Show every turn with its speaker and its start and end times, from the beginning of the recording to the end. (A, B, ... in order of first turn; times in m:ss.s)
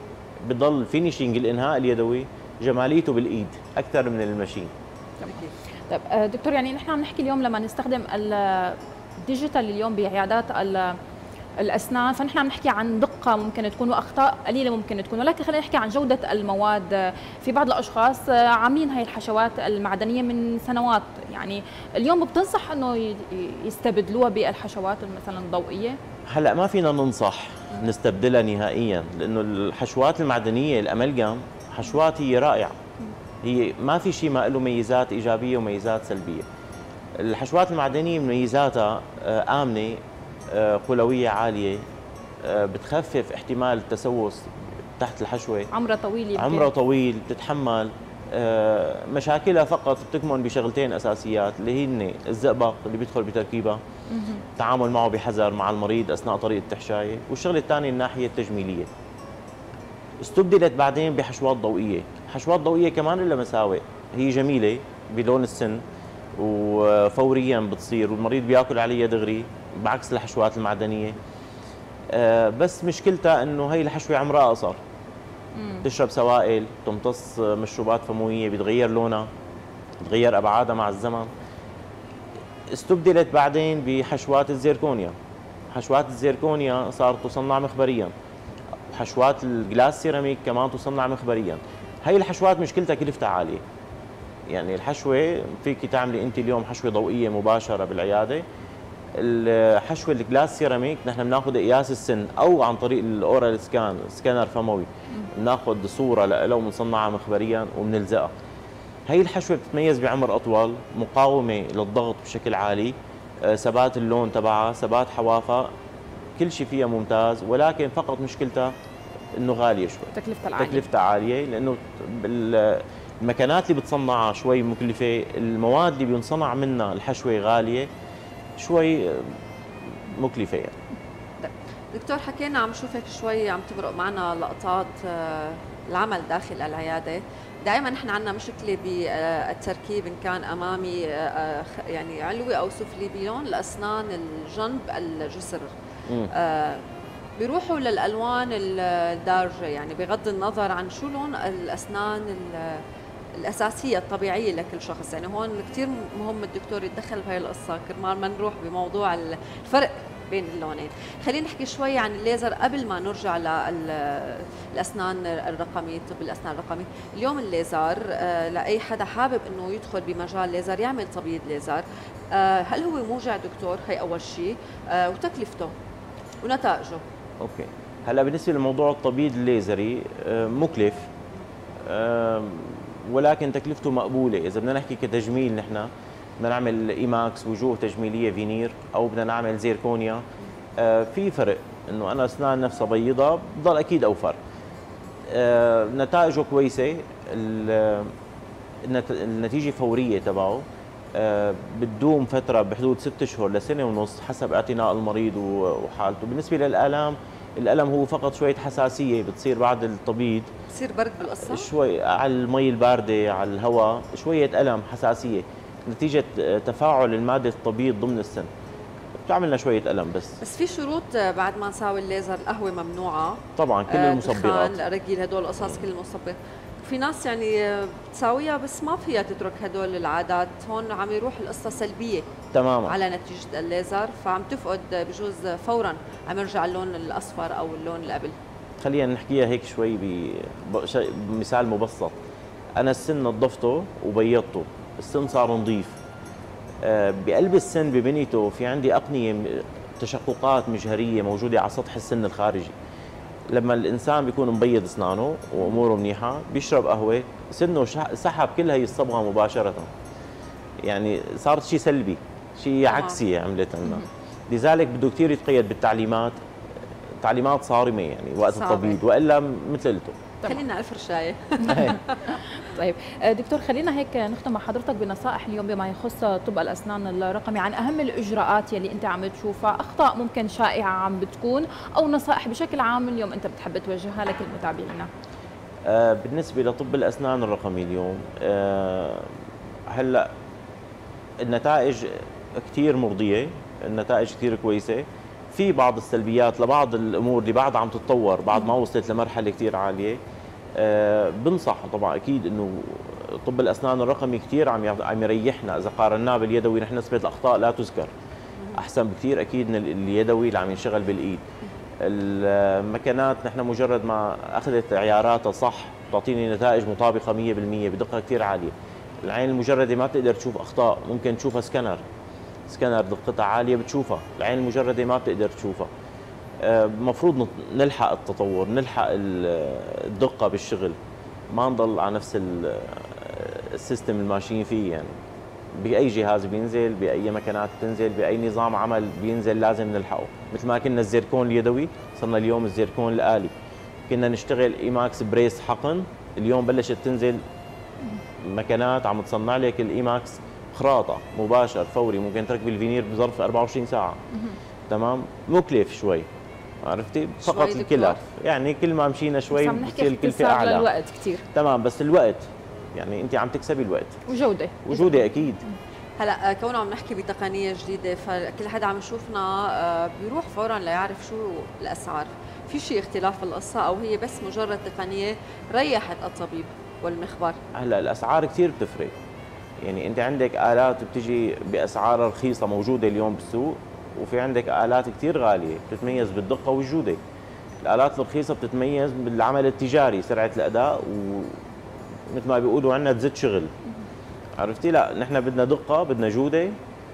0:00.4-0:04.7 A
0:05.2-0:05.5 B
0:05.9-0:11.0 C
0:11.6-0:26.0 C
0:26.3-0:32.8 A
0:33.4-0:36.4 A
0:37.2-0:41.8 A
0:42.4-0:45.7 A
0:45.7-0:46.7 C
0:46.4-0:53.8 A
0:54.1-0:54.4 C
0:54.6-0:58.9 A
1:00.2-1:05.8 A
1:06.4-1:11.2 A
1:12.1-1:14.8 A
1:15.6-1:15.9 C
1:15.8-1:19.3 A
1:20.0-1:21.3 A
1:22.7-1:25.1 A
1:25.7-1:28.1 A
1:28.9-1:33.6 A
1:34.5-1:38.4 A
1:39.2-1:48.3 A
1:49.1-1:55.7 A
1:56.4-1:58.7 A
1:59.4-2:07.9 A
2:00.1-2:00.8 C
2:08.6-2:09.3 A
2:10.1-2:10.7 A
2:11.4-2:25.7 B
2:26.3-2:26.8 B
2:27.4-2:32.8 B
2:33.4-2:55.7 B
2:56.4-2:57.0 B
2:57.4-3:01.1 A
3:01.8-3:10.2 A
3:10.8-3:14.4 A
3:15.3-3:18.1 A
3:18.8-3:30.5 A
3:30.7-3:31.7 B
3:31.5-3:38.5 A
3:39.2-3:40.4 A
3:40.4-3:52.3 B
3:43.6-3:44.8 A
3:52.5-3:53.0 A
3:52.9-3:58.4 B
3:58.8-4:02.2 A
4:02.8-4:06.0 A
4:06.8-4:12.7 A
4:13.5-4:19.9 A
4:20.8-4:26.4 A
4:22.9-4:23.2 B
4:27.2-4:30.2 A
4:28.5-4:29.0 B
4:30.4-4:32.4 B
4:31.7-4:32.0 C
4:32.6-4:45.1 C
4:45.9-4:49.3 A
4:49.9-4:50.3 A
4:51.4-5:00.2 A
5:00.8-5:08.1 A
5:08.8-5:11.4 A
5:12.0-5:22.0 A
5:22.7-5:25.9 A
5:26.6-5:31.0 A
5:31.5-5:35.1 A
5:35.8-5:43.5 A
5:44.1-5:47.4 A
5:48.4-5:54.2 A
5:54.9-5:56.3 A
5:56.8-6:00.9 A
5:57.4-5:58.2 B
5:59.5-6:01.4 C
6:01.5-6:04.2 A
6:04.3-6:05.2 C
6:04.8-6:05.6 A
6:06.2-6:17.6 B
6:17.7-6:19.1 A
6:19.8-6:27.2 A
6:27.8-6:31.6 A
6:32.3-6:33.7 A
6:34.6-6:36.7 A